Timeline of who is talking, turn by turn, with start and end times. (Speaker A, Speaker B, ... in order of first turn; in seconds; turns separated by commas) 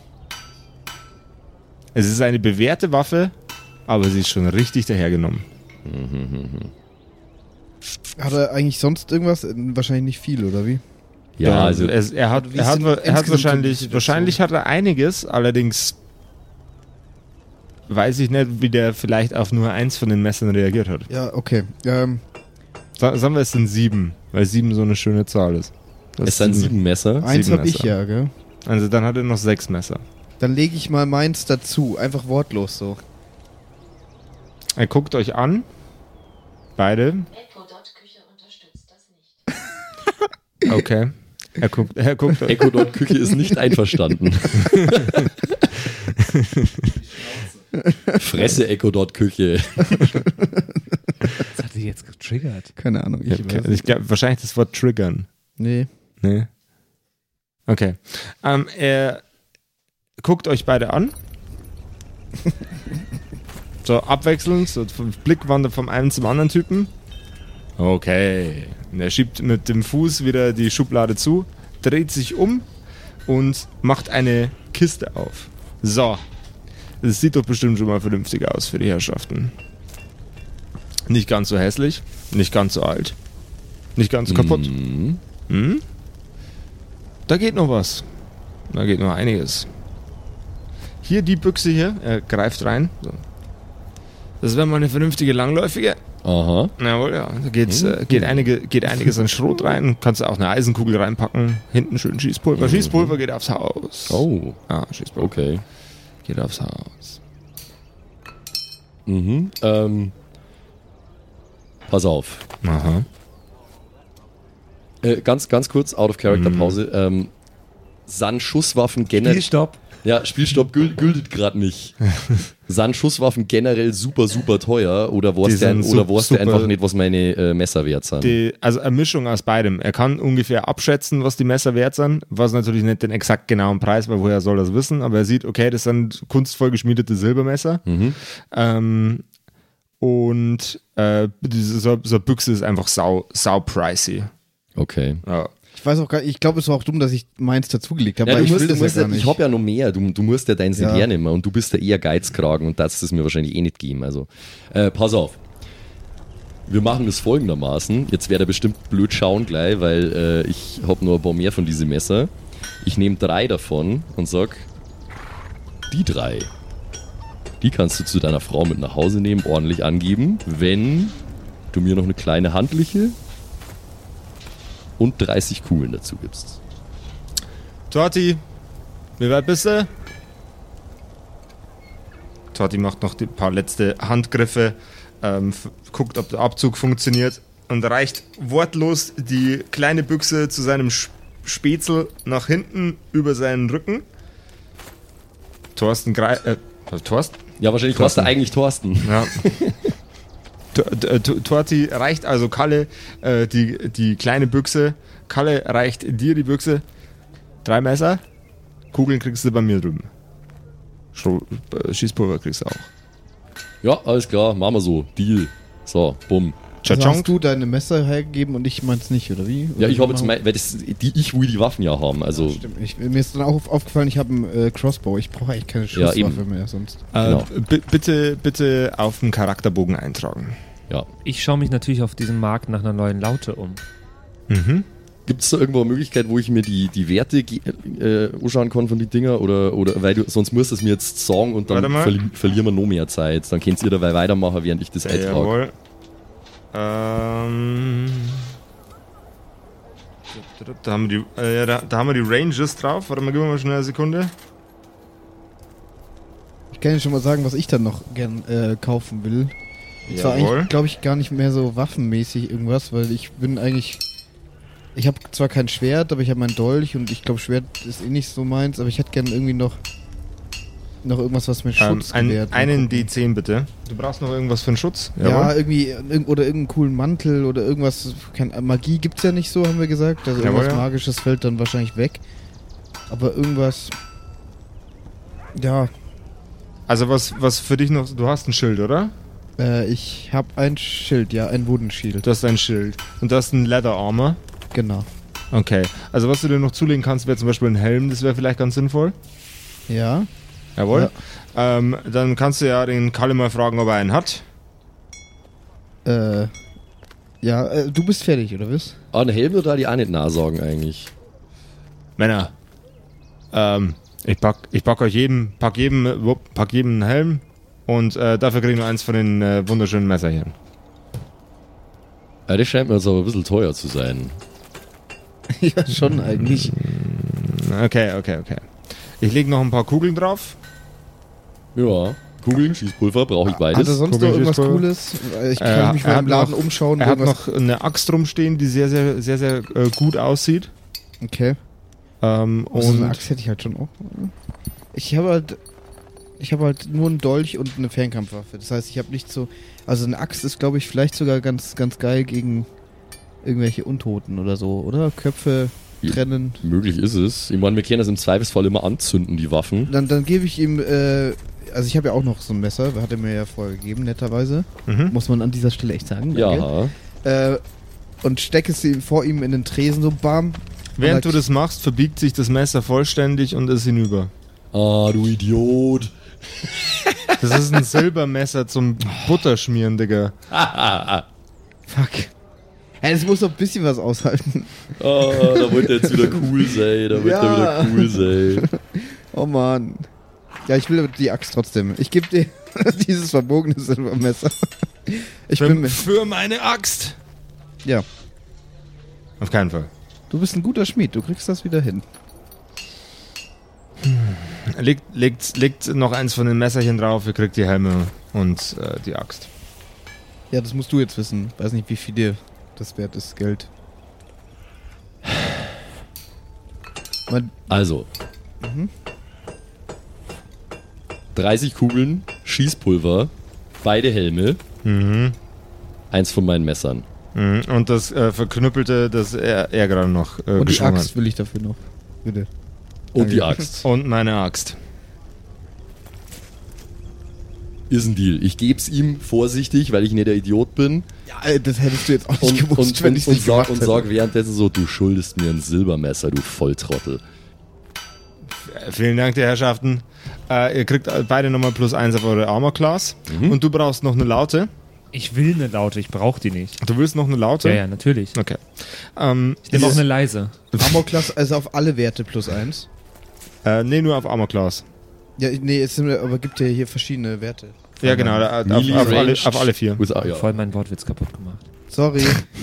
Speaker A: 1.9-3.3, Speaker A: 3.9-5.5, Speaker B: 5.8-6.7, Speaker C: 8.2-10.8, Speaker B: 11.4-12.0, Speaker A: 11.4-16.0, Speaker C: 12.3-14.4, Speaker A: 17.9-21.1, Speaker C: 21.1-22.2, Speaker A: 23.0-27.9, Speaker B: 26.2-27.3, Speaker C: 27.2-28.3, Speaker A: 28.6-30.0, Speaker C: 30.4-33.0, Speaker A: 34.8-35.7, Speaker A: 36.8-37.3, Speaker D: 37.3-39.5, Speaker A: 40.6-42.8, Speaker B: 42.5-45.3, Speaker C: 43.3-43.6, Speaker A: 44.7-45.1, Speaker A: 46.2-47.0, Speaker C: 47.7-48.5, Speaker B: 48.1-50.2, Speaker C: 50.0-50.9, Speaker E: 51.5-52.7, Speaker C: 52.8-53.9, Speaker A: 53.3-55.3, Speaker C: 55.6-55.9, Speaker A: 56.2-56.5, Speaker A: 57.7-59.2, Speaker A: 60.2-61.1, Speaker A: 63.8-66.9, Speaker A: 67.8-72.7, Speaker A: 73.3-76.2, Speaker A: 77.0-79.5, Speaker A: 81.1-83.2, Speaker A: 84.0-84.7, Speaker B: 84.3-85.2, Speaker A: 85.5-85.8, Speaker A: 87.3-88.1, Speaker A: 88.7-89.7, Speaker A: 91.0-93.2, Speaker A: 94.4-96.0, Speaker B: 96.2-96.7, Speaker A: 96.8-105.3, Speaker B: 97.7-99.1, Speaker B: 102.5-103.2, Speaker B: 104.1-104.6, Speaker B: 105.2-105.6, Speaker A: 106.2-107.2, Speaker B: 109.1-110.1, Speaker B: 111.9-112.4, Speaker A: 112.6-113.1, Speaker B: 115.0-117.3, Speaker A: 116.3-116.8, Speaker B: 118.1-119.5, Speaker E: 119.2-119.8, Speaker B: 120.0-122.1, Speaker B: 122.7-128.4, Speaker A: 125.4-126.7, Speaker A: 128.2-137.8, Speaker B: 137.9-138.2, Speaker A: 138.5-139.2, Speaker A: 140.0-144.3, Speaker B: 144.8-145.2, Speaker A: 145.3-145.5, Speaker C: 145.7-149.4, Speaker B: 148.2-155.4, Speaker C: 150.8-151.1, Speaker B: 156.7-164.7, Speaker B: 165.9-166.5, Speaker B: 167.6-171.2, Speaker B: 171.7-173.2, Speaker B: 175.0-176.6, Speaker A: 177.9-178.4, Speaker A: 179.2-179.9, Speaker A: 182.5-194.1, Speaker A: 195.7-197.4, Speaker B: 197.6-199.9, Speaker A: 197.9-198.3, Speaker A: 199.0-199.4, Speaker A: 200.7-206.8, Speaker A: 207.6-208.2, Speaker A: 208.9-210.1, Speaker A: 211.1-212.9, Speaker B: 213.8-216.6, Speaker A: 216.8-217.3, Speaker C: 216.9-220.3, Speaker B: 219.8-222.6, Speaker C: 222.3-227.0, Speaker B: 225.9-226.4, Speaker A: 227.1-230.6, Speaker B: 227.2-227.5, Speaker E: 231.2-233.8, Speaker A: 234.5-234.9, Speaker B: 235.3-245.5, Speaker A: 241.7-242.1, Speaker A: 245.0-245.7, Speaker A: 246.7-248.4, Speaker A: 250.3-254.3, Speaker C: 256.7-259.5, Speaker A: 260.1-260.7, Speaker C: 260.1-264.0, Speaker C: 264.9-269.8, Speaker C: 271.0-273.1, Speaker A: 271.8-275.5, Speaker C: 275.2-282.2, Speaker A: 280.4-280.9, Speaker C: 283.1-283.9, Speaker C: 285.6-285.9, Speaker A: 286.9-289.1, Speaker C: 289.6-292.3, Speaker A: 292.2-294.4, Speaker C: 294.7-295.1, Speaker A: 295.5-299.2, Speaker C: 299.9-300.3, Speaker A: 300.8-304.4, Speaker C: 306.1-306.5, Speaker C: 307.4-309.0, Speaker B: 309.1-311.1, Speaker A: 312.2-312.5, Speaker A: 313.5-320.6, Speaker B: 322.5-324.4, Speaker C: 325.5-326.8, Speaker A: 326.0-328.7, Speaker A: 329.2-330.6, Speaker B: 331.7-334.0, Speaker C: 333.4-337.4, Speaker A: 334.0-334.9, Speaker A: 335.6-340.7, Speaker C: 341.2-341.6, Speaker A: 342.2-343.2, Speaker C: 342.7-344.3, Speaker C: 344.9-345.6, Speaker C: 346.4-352.7, Speaker C: 353.4-356.6, Speaker B: 356.0-359.9, Speaker C: 359.9-366.7, Speaker A: 364.9-365.1, Speaker B: 366.3-366.9, Speaker C: 367.2-367.6, Speaker C: 368.2-371.4, Speaker A: 371.0-374.3, Speaker B: 374.7-376.1, Speaker B: 376.9-377.2, Speaker A: 377.4-380.4, Speaker B: 380.5-381.3, Speaker C: 381.9-382.3, Speaker C: 383.0-390.1, Speaker B: 385.0-388.7, Speaker C: 390.7-396.0, Speaker A: 395.6-397.2, Speaker A: 399.4-399.9, Speaker C: 400.3-402.1, Speaker A: 404.0-409.5, Speaker C: 410.5-413.7, Speaker C: 417.3-417.6, Speaker B: 417.7-418.1, Speaker C: 418.6-418.9, Speaker B: 421.4-423.3, Speaker B: 423.8-424.6, Speaker A: 424.9-425.4, Speaker B: 426.1-427.1, Speaker A: 427.4-431.1, Speaker C: 430.6-432.5, Speaker B: 433.1-433.9, Speaker C: 433.2-433.6, Speaker A: 433.8-434.8, Speaker B: 437.9-441.1, Speaker C: 441.3-444.1, Speaker B: 442.4-447.2, Speaker A: 448.6-454.7, Speaker B: 453.3-453.6, Speaker E: 455.1-456.8, Speaker A: 456.8-457.8, Speaker E: 457.6-458.4, Speaker A: 458.4-458.6, Speaker A: 459.1-460.0, Speaker E: 459.7-460.6, Speaker A: 460.7-461.1, Speaker C: 460.8-462.9, Speaker A: 463.6-464.9, Speaker C: 465.4-468.4, Speaker A: 468.0-470.0, Speaker B: 468.6-470.5, Speaker E: 470.2-471.7, Speaker C: 471.9-472.4